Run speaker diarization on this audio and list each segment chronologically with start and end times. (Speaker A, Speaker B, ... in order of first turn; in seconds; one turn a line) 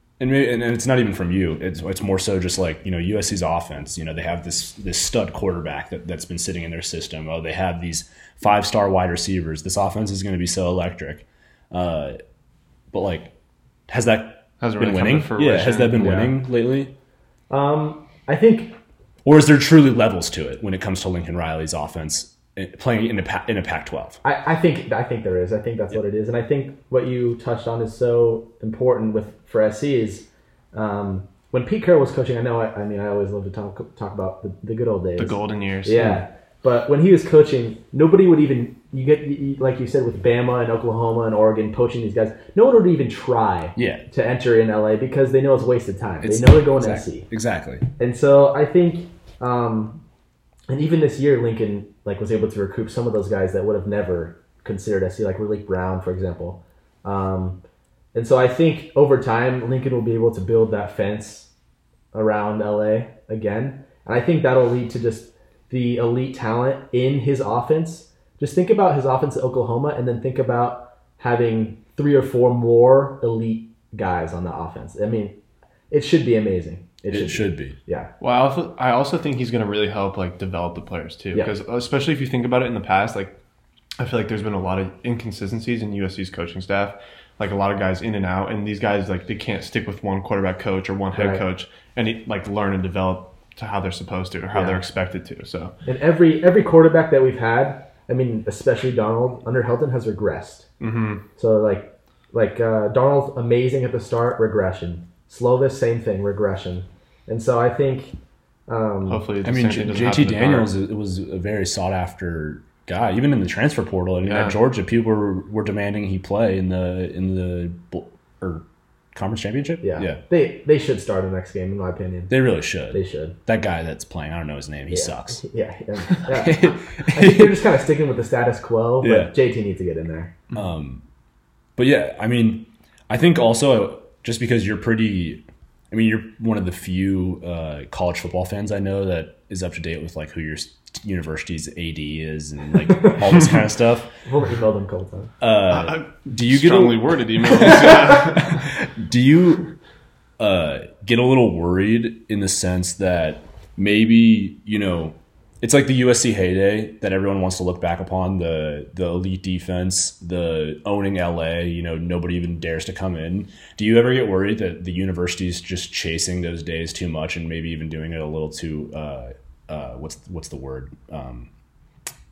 Speaker A: 0.2-12.2
Speaker A: 12.9-13.3
Speaker A: 13.9-16.9
Speaker B: 14.6-16.4
Speaker C: 17.5-18.8
Speaker A: 19.2-24.2
Speaker C: 24.2-47.3
Speaker B: 35.2-36.0
Speaker A: 43.8-44.0
Speaker A: 46.2-47.9
Speaker C: 48.0-50.0
Speaker C: 50.7-57.6
Speaker C: 58.1-61.5
Speaker C: 62.1-75.4
Speaker C: 75.9-78.1
Speaker A: 77.1-77.8
Speaker B: 78.2-83.4
Speaker B: 84.0-95.8
Speaker C: 91.2-91.4
Speaker C: 94.5-94.8
Speaker C: 95.8-100.7
Speaker B: 100.8-101.2
Speaker C: 101.4-108.2
Speaker C: 108.7-109.2
Speaker B: 109.1-110.7
Speaker A: 109.4-120.2
Speaker B: 114.2-114.6
Speaker C: 119.8-122.4
Speaker A: 122.3-125.4
Speaker C: 122.9-123.4
Speaker C: 124.9-130.3
Speaker A: 126.3-127.7
Speaker A: 129.0-129.3
Speaker A: 130.5-131.0
Speaker A: 131.8-144.1
Speaker C: 144.2-145.3
Speaker A: 145.4-149.7
Speaker B: 145.7-148.7
Speaker A: 150.4-171.5